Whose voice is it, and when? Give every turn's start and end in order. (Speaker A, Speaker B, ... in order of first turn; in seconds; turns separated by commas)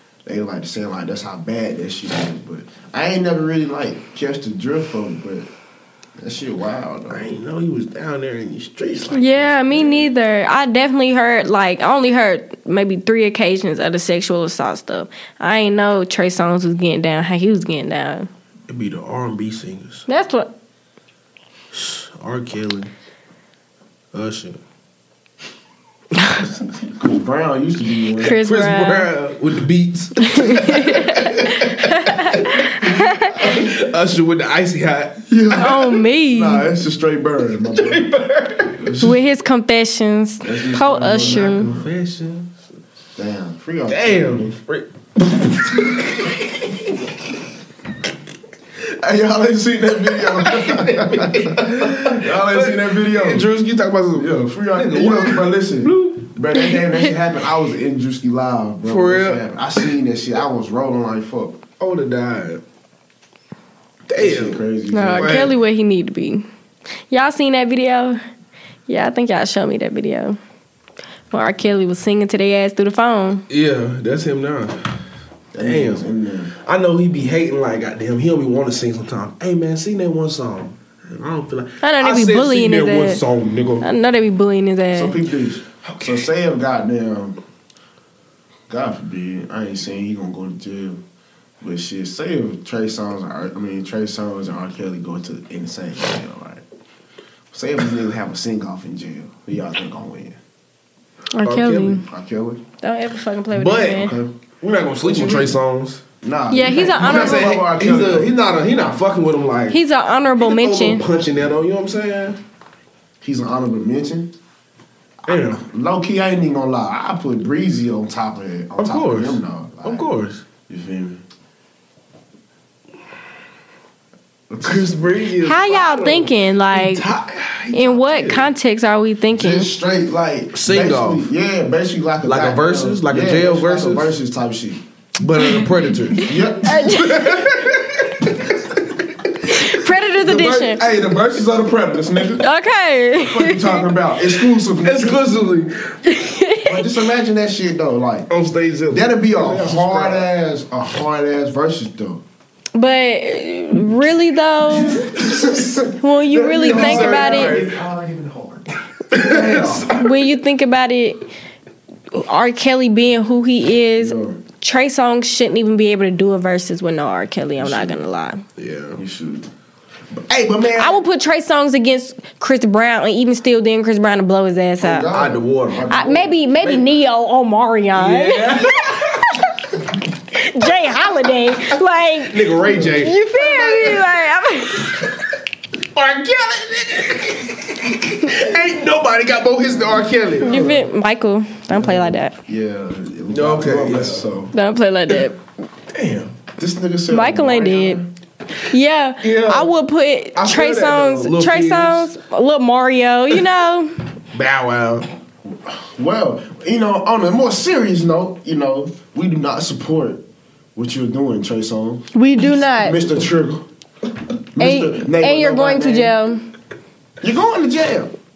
Speaker A: 0.2-5.5, Speaker A: 6.2-7.3, Speaker B: 7.1-10.1, Speaker C: 9.1-18.3, Speaker B: 18.7-20.1, Speaker C: 20.1-20.5, Speaker B: 21.7-22.9, Speaker B: 24.1-24.6, Speaker A: 26.9-28.4, Speaker C: 28.2-29.1, Speaker B: 28.3-35.3, Speaker C: 30.2-33.5, Speaker A: 35.3-38.1, Speaker C: 35.6-36.7, Speaker B: 37.8-38.9, Speaker A: 38.8-39.2, Speaker C: 39.0-41.7, Speaker A: 40.4-41.9, Speaker B: 41.2-42.6, Speaker A: 43.2-44.6, Speaker B: 43.9-46.4, Speaker A: 49.0-53.5, Speaker B: 50.1-56.4, Speaker A: 54.2-61.6, Speaker C: 56.6-57.0, Speaker B: 58.9-59.5, Speaker B: 61.8-62.6, Speaker B: 64.1-64.6, Speaker A: 64.2-65.5, Speaker C: 64.9-66.5, Speaker B: 65.2-65.5, Speaker C: 67.1-68.2, Speaker C: 68.9-70.4, Speaker C: 71.3-73.5, Speaker B: 73.5-75.0, Speaker A: 75.5-76.5, Speaker B: 75.6-83.9, Speaker C: 81.8-83.2, Speaker C: 83.8-85.2, Speaker A: 84.9-87.4, Speaker B: 85.8-86.3, Speaker A: 88.7-91.0, Speaker A: 91.6-96.6, Speaker A: 97.5-100.4, Speaker C: 101.3-102.0, Speaker B: 101.4-102.0, Speaker A: 102.0-102.6, Speaker C: 102.8-104.2, Speaker B: 103.5-104.1, Speaker A: 103.9-104.3, Speaker B: 104.6-106.0, Speaker A: 105.1-105.5, Speaker A: 106.2-108.3, Speaker C: 106.5-107.6, Speaker B: 107.0-109.8, Speaker C: 109.7-111.0, Speaker B: 110.4-112.4, Speaker A: 113.2-114.3, Speaker A: 115.2-120.1, Speaker B: 115.3-115.6, Speaker B: 118.8-120.4, Speaker A: 120.7-121.2, Speaker A: 124.5-125.0, Speaker B: 124.6-128.5, Speaker C: 125.4-127.1, Speaker C: 127.7-129.7, Speaker A: 129.3-134.8, Speaker B: 130.5-131.3, Speaker B: 132.2-134.1, Speaker B: 135.2-139.0, Speaker C: 135.4-135.7, Speaker A: 136.2-137.1, Speaker C: 136.6-137.7, Speaker C: 139.5-140.9, Speaker A: 140.2-142.5, Speaker C: 142.4-144.0, Speaker A: 143.2-145.2, Speaker B: 144.7-146.1, Speaker C: 146.1-146.9, Speaker A: 146.6-148.3, Speaker B: 148.3-150.3, Speaker A: 148.9-152.2, Speaker C: 152.8-155.2, Speaker A: 154.8-159.9, Speaker C: 156.0-157.6, Speaker B: 156.7-157.8, Speaker B: 159.1-160.2, Speaker C: 159.9-161.3, Speaker C: 162.1-168.4, Speaker A: 164.0-164.4, Speaker A: 167.6-168.0, Speaker B: 168.6-169.0, Speaker A: 169.0-169.5, Speaker A: 170.1-171.0, Speaker C: 170.8-175.1, Speaker A: 174.8-176.4, Speaker B: 175.1-175.9, Speaker C: 175.9-178.7, Speaker B: 176.6-176.9, Speaker B: 177.9-179.4, Speaker C: 180.3-185.1, Speaker B: 182.2-184.1, Speaker B: 184.9-185.2, Speaker B: 185.9-190.7, Speaker A: 190.4-190.9, Speaker C: 190.4-192.3, Speaker A: 191.8-194.5, Speaker B: 193.3-194.4, Speaker C: 194.5-195.4, Speaker B: 195.9-196.4, Speaker A: 196.6-198.1, Speaker C: 197.1-198.0, Speaker C: 198.7-203.9, Speaker B: 199.2-199.7, Speaker B: 200.4-202.1, Speaker B: 204.3-205.1, Speaker A: 205.5-210.2, Speaker A: 210.8-212.1, Speaker C: 212.2-213.0, Speaker A: 212.6-213.7, Speaker A: 214.6-216.2, Speaker C: 214.6-216.4, Speaker A: 217.2-218.1